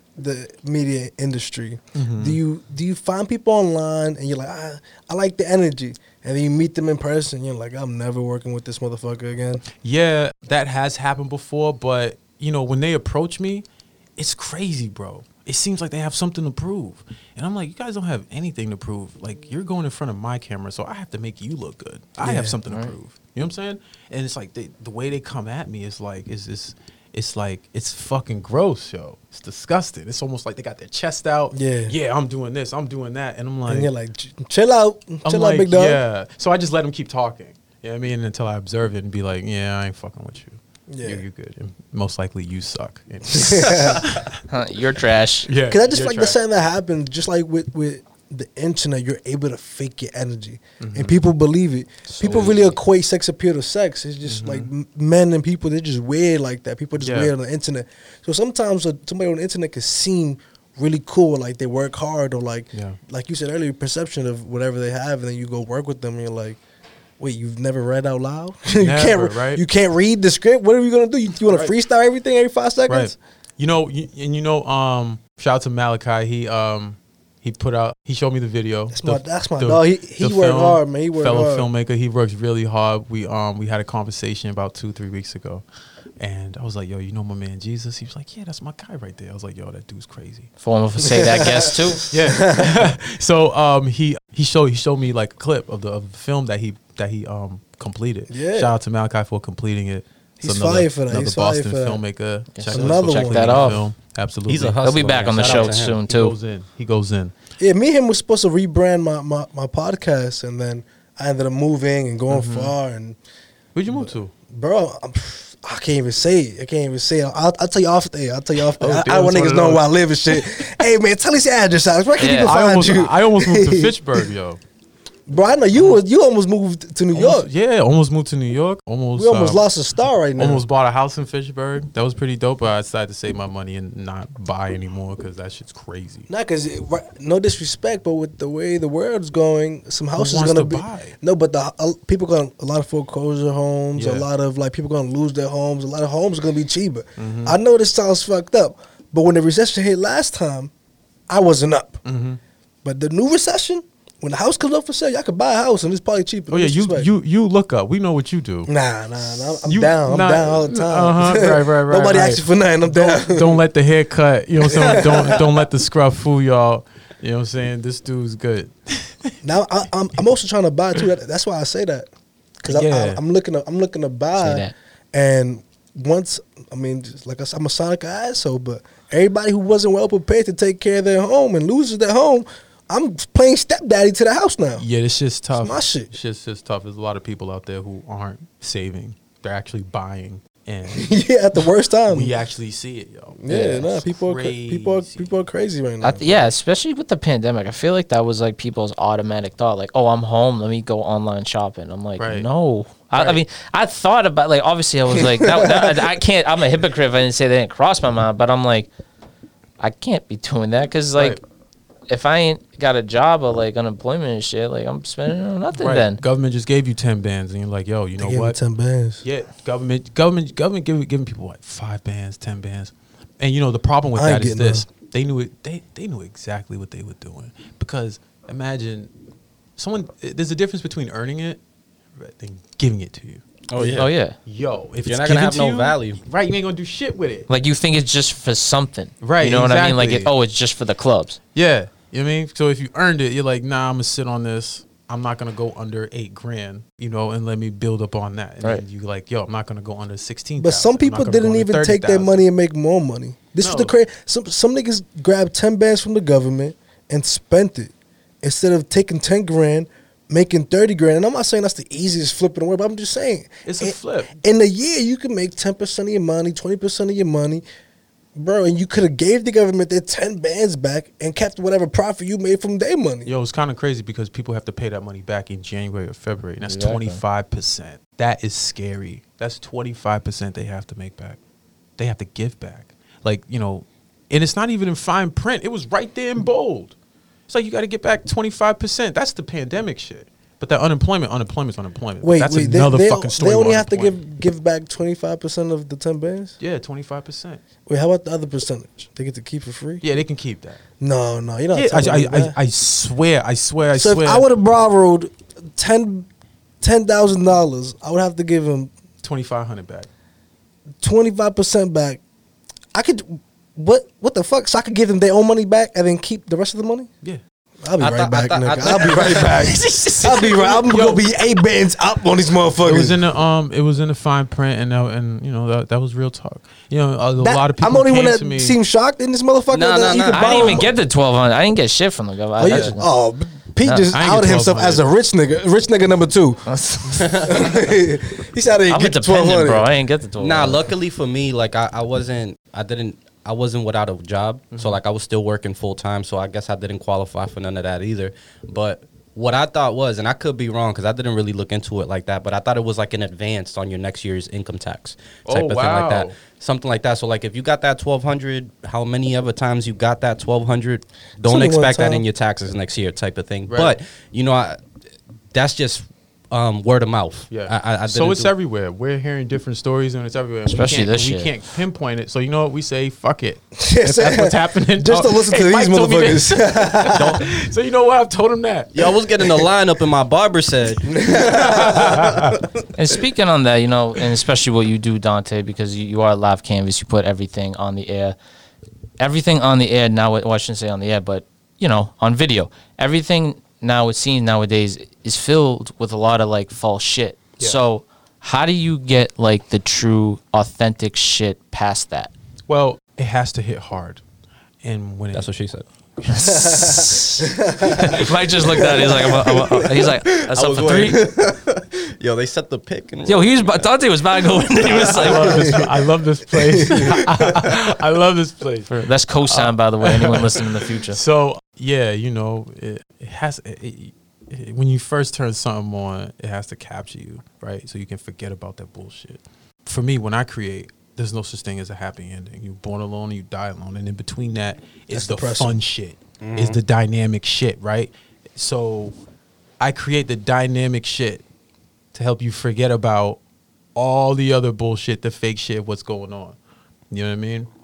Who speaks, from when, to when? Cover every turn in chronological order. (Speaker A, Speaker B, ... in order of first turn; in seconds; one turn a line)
Speaker A: 0.2-9.6
Speaker B: 2.0-2.4
Speaker B: 9.8-13.7
Speaker B: 14.2-33.9
Speaker A: 22.2-22.6
Speaker C: 22.7-22.9
Speaker A: 31.5-31.9
Speaker A: 33.7-36.0
Speaker B: 35.2-44.4
Speaker A: 40.9-41.2
Speaker A: 43.3-44.1
Speaker C: 44.5-45.5
Speaker B: 45.5-46.4
Speaker A: 45.7-66.6
Speaker B: 50.8-51.2
Speaker D: 52.1-52.7
Speaker B: 54.3-54.7
Speaker B: 57.0-57.3
Speaker B: 62.7-63.0
Speaker A: 67.2-73.2
Speaker B: 68.7-69.6
Speaker B: 71.5-71.7
Speaker B: 72.9-85.7
Speaker A: 78.9-81.7
Speaker B: 86.2-90.5
Speaker C: 90.6-92.1
Speaker A: 91.0-92.9
Speaker B: 92.1-104.8
Speaker A: 98.3-98.7
Speaker A: 100.4-102.0
Speaker C: 102.5-103.9
Speaker A: 102.7-103.8
Speaker D: 104.5-106.0
Speaker C: 104.8-106.3
Speaker B: 105.3-107.3
Speaker A: 107.6-113.2
Speaker B: 112.3-112.7
Speaker B: 113.8-114.3
Speaker A: 113.9-124.2
Speaker B: 118.8-119.8
Speaker C: 122.2-122.5
Speaker B: 122.5-124.6
Speaker A: 125.3-127.5
Speaker B: 127.1-129.6
Speaker A: 129.2-130.6
Speaker B: 130.4-136.3
Speaker A: 136.3-150.7
Speaker B: 140.2-141.1
Speaker B: 144.0-144.3
Speaker B: 147.2-147.6
Speaker A: 151.3-152.0
Speaker B: 152.1-152.4
Speaker A: 152.8-157.1
Speaker B: 156.5-158.7
Speaker A: 158.7-163.6
Speaker B: 159.5-169.3
Speaker A: 164.7-165.5
Speaker A: 169.4-172.1
Speaker A: 172.6-184.8
Speaker B: 172.7-173.2
Speaker C: 174.4-174.7
Speaker B: 184.8-191.2
Speaker A: 185.6-186.1
Speaker A: 190.9-192.3
Speaker B: 192.1-195.3
Speaker A: 193.4-196.2
Speaker C: 193.5-194.0
Speaker C: 196.0-208.9
Speaker B: 196.2-196.5
Speaker B: 202.2-202.5
Speaker B: 203.1-203.4
Speaker A: 205.2-206.0
Speaker C: 209.8-211.4
Speaker C: 212.1-216.2
Speaker B: 215.8-218.6
Speaker A: 218.2-219.2
Speaker B: 219.2-229.1
Speaker A: 224.2-224.8
Speaker B: 229.8-231.6
Speaker B: 232.2-237.5
Speaker D: 233.7-234.1
Speaker C: 233.8-234.4
Speaker D: 235.0-236.2
Speaker C: 237.5-241.4
Speaker B: 239.2-240.3
Speaker B: 241.6-252.4
Speaker A: 250.6-267.6
Speaker B: 253.6-253.9
Speaker B: 263.6-264.3
Speaker A: 268.4-273.3
Speaker B: 273.2-281.4
Speaker C: 276.6-277.2
Speaker B: 282.0-287.0
Speaker B: 287.5-294.1
Speaker A: 292.2-296.6
Speaker B: 296.6-297.6
Speaker A: 297.9-300.0
Speaker B: 300.0-300.8
Speaker A: 301.0-302.6
Speaker B: 301.7-304.4
Speaker A: 303.9-306.3
Speaker A: 306.8-308.9
Speaker B: 309.2-310.1
Speaker A: 311.0-312.2
Speaker A: 312.9-317.1
Speaker A: 317.8-323.2
Speaker D: 318.0-319.8
Speaker B: 319.5-321.4
Speaker B: 322.8-328.8
Speaker A: 327.4-330.9
Speaker D: 329.7-330.9
Speaker C: 330.2-333.1
Speaker A: 332.6-339.9
Speaker B: 332.6-333.0
Speaker C: 333.8-334.1
Speaker B: 334.1-335.0
Speaker C: 336.7-337.4
Speaker D: 337.2-337.5
Speaker C: 338.9-340.9
Speaker D: 340.4-364.8
Speaker B: 344.7-345.0
Speaker B: 355.5-356.4
Speaker A: 361.5-362.2
Speaker B: 363.7-364.0
Speaker D: 365.5-368.5
Speaker B: 367.5-378.9
Speaker C: 370.7-371.5
Speaker A: 373.8-377.4
Speaker D: 378.9-382.4
Speaker A: 381.2-382.0
Speaker B: 381.9-382.6
Speaker C: 383.0-388.4
Speaker C: 389.2-402.3
Speaker B: 402.7-404.2
Speaker B: 404.8-405.5
Speaker D: 405.3-405.9
Speaker C: 406.3-411.3
Speaker A: 406.3-409.2
Speaker D: 408.9-413.9
Speaker C: 413.3-415.9
Speaker D: 414.9-415.8
Speaker B: 415.2-418.9
Speaker A: 415.4-415.8
Speaker A: 416.6-417.2
Speaker C: 418.9-421.2
Speaker B: 419.4-439.2
Speaker A: 435.1-435.8
Speaker D: 436.4-436.8
Speaker B: 439.8-441.4
Speaker B: 442.1-443.4
Speaker B: 443.9-446.6
Speaker B: 447.1-447.7